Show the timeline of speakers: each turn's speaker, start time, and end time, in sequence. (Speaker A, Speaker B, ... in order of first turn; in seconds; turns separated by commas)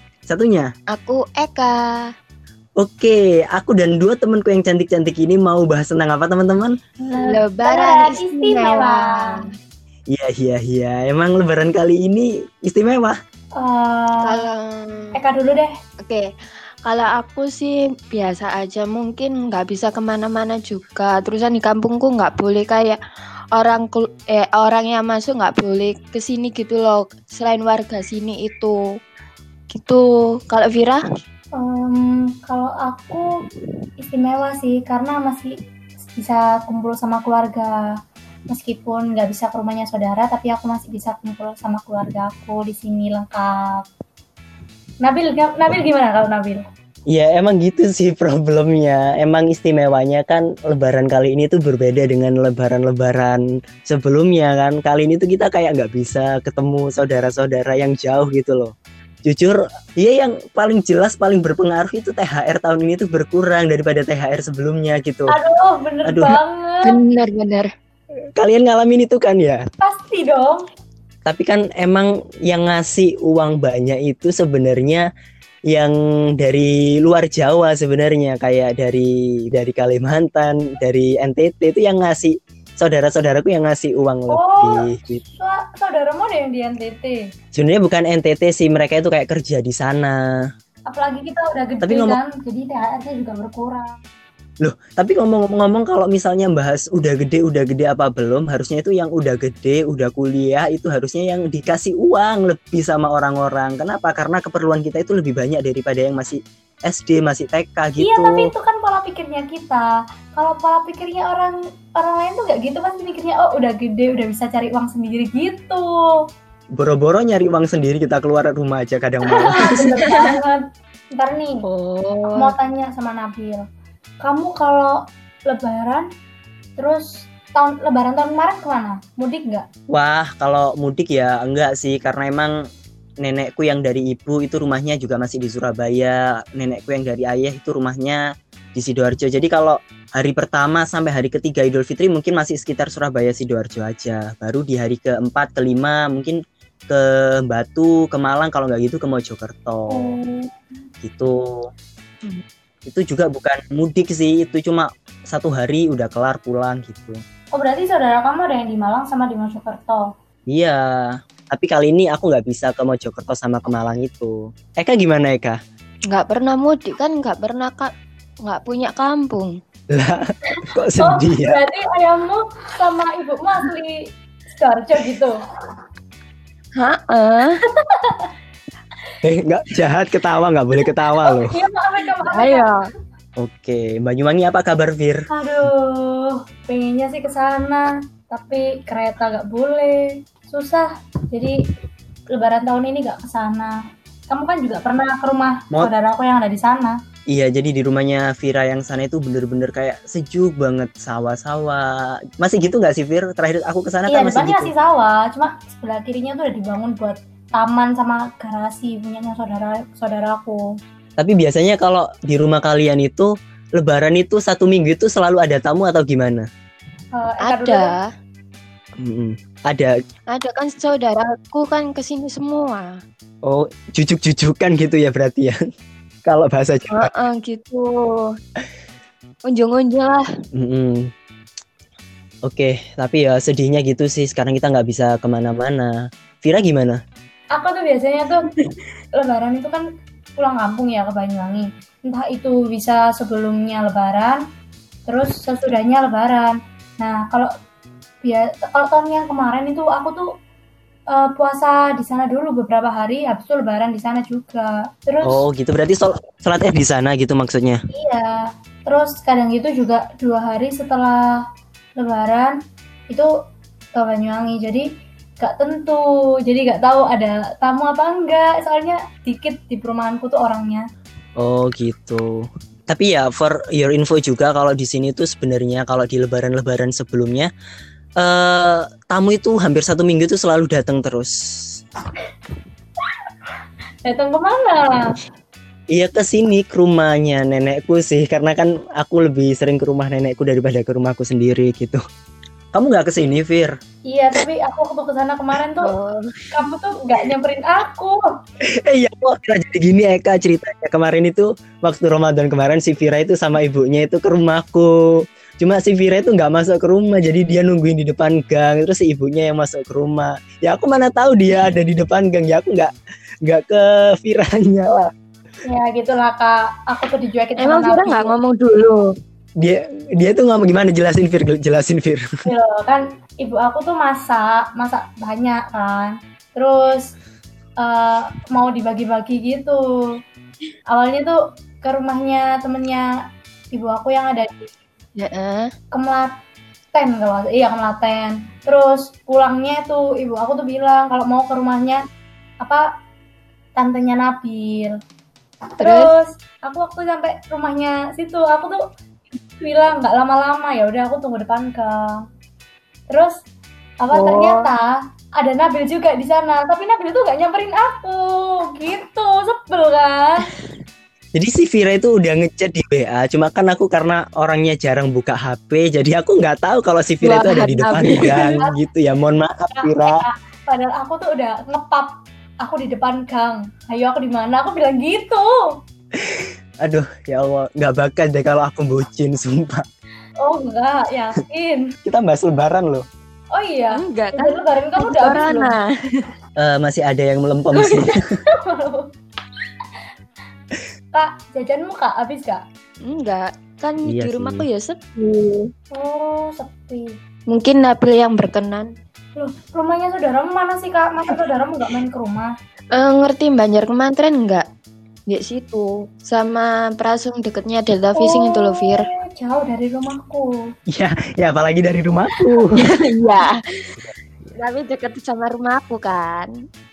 Speaker A: 0.3-0.7, Speaker B: 0.9-1.8, Speaker A: 2.8-6.7, Speaker C: 7.0-9.3, Speaker B: 7.2-9.4, Speaker A: 10.1-13.2, Speaker C: 13.6-14.4, Speaker B: 14.2-15.1, Speaker C: 15.1-15.7, Speaker B: 16.8-23.0, Speaker B: 23.5-28.8, Speaker B: 29.7-31.0, Speaker C: 31.5-33.2, Speaker C: 34.0-35.5, Speaker C: 36.1-37.7, Speaker C: 38.5-43.9, Speaker C: 45.0-46.6, Speaker A: 47.1-58.7, Speaker A: 59.2-65.3, Speaker C: 65.3-67.0, Speaker A: 66.0-66.3, Speaker B: 66.8-67.7, Speaker A: 68.3-69.7, Speaker C: 69.8-70.7, Speaker A: 71.2-75.0, Speaker A: 75.7-85.2, Speaker C: 84.3-87.2, Speaker A: 87.5-90.2, Speaker C: 90.9-94.0, Speaker A: 91.8-92.2, Speaker A: 94.6-108.5, Speaker C: 108.0-116.1, Speaker A: 116.8-120.0, Speaker C: 119.3-120.6, Speaker B: 119.6-120.3, Speaker C: 121.2-121.6, Speaker B: 121.7-122.5, Speaker C: 122.3-123.6, Speaker C: 124.2-125.0, Speaker C: 125.5-126.1, Speaker C: 126.8-129.6, Speaker A: 129.9-132.5, Speaker A: 133.2-138.2, Speaker A: 138.7-146.4, Speaker A: 146.9-150.1, Speaker C: 149.9-150.5, Speaker A: 151.0-151.7, Speaker A: 152.8-157.2, Speaker C: 157.5-160.1, Speaker A: 160.5-165.6, Speaker B: 166.1-167.9, Speaker B: 168.4-169.5, Speaker A: 169.9-171.6, Speaker C: 171.0-174.0, Speaker C: 174.5-175.4, Speaker B: 176.8-177.5, Speaker A: 179.2-181.6, Speaker C: 181.2-182.7, Speaker B: 182.3-182.8, Speaker A: 183.4-185.2, Speaker C: 185.3-191.5, Speaker C: 192.3-193.7, Speaker C: 194.3-196.9, Speaker A: 197.3-204.7, Speaker C: 204.1-210.6, Speaker A: 211.2-216.4, Speaker C: 217.1-217.9, Speaker B: 217.4-218.0, Speaker A: 219.0-219.9, Speaker B: 220.3-222.8, Speaker A: 223.4-225.6, Speaker A: 226.2-227.1, Speaker B: 226.9-228.2, Speaker B: 229.5-230.2, Speaker A: 230.5-231.1, Speaker A: 232.4-237.0, Speaker C: 237.5-238.4, Speaker C: 239.2-239.8, Speaker C: 240.4-244.4, Speaker C: 245.1-247.5, Speaker C: 248.2-250.2, Speaker C: 251.1-255.4, Speaker A: 255.2-257.8, Speaker C: 257.9-261.4, Speaker C: 262.0-262.6, Speaker C: 263.9-264.9, Speaker C: 265.4-270.8, Speaker A: 271.4-277.5, Speaker A: 278.2-281.8, Speaker C: 284.0-285.1, Speaker A: 285.9-292.0, Speaker A: 292.7-293.7, Speaker C: 294.1-295.9, Speaker B: 295.8-296.5, Speaker C: 296.5-298.2, Speaker A: 298.8-304.9, Speaker A: 305.6-312.9, Speaker A: 313.4-315.1, Speaker C: 315.6-318.3, Speaker B: 317.6-319.0, Speaker A: 319.6-322.4, Speaker C: 322.4-327.0, Speaker C: 327.8-329.8, Speaker C: 330.9-333.1, Speaker C: 333.7-334.7, Speaker B: 335.2-335.7, Speaker C: 335.9-336.3, Speaker C: 336.9-342.0, Speaker C: 343.7-344.9, Speaker B: 345.8-346.1, Speaker C: 345.8-348.8, Speaker C: 349.6-352.2, Speaker C: 354.0-360.4, Speaker B: 354.1-354.7, Speaker A: 361.3-370.1, Speaker B: 367.2-368.6, Speaker C: 368.4-368.8, Speaker C: 369.8-372.1, Speaker C: 372.6-375.5, Speaker A: 376.2-379.9, Speaker C: 380.4-381.9, Speaker A: 382.0-383.0, Speaker C: 383.5-385.7, Speaker B: 383.9-385.9, Speaker A: 386.6-388.2, Speaker B: 387.7-388.1, Speaker C: 388.7-389.1, Speaker C: 391.1-392.6, Speaker B: 393.0-395.7, Speaker A: 394.0-394.6, Speaker C: 395.9-397.1, Speaker B: 397.5-398.9, Speaker C: 399.3-402.5, Speaker B: 402.9-404.6, Speaker B: 405.3-409.1, Speaker C: 408.1-410.5, Speaker A: 410.9-412.8, Speaker B: 412.8-413.9, Speaker B: 414.6-416.5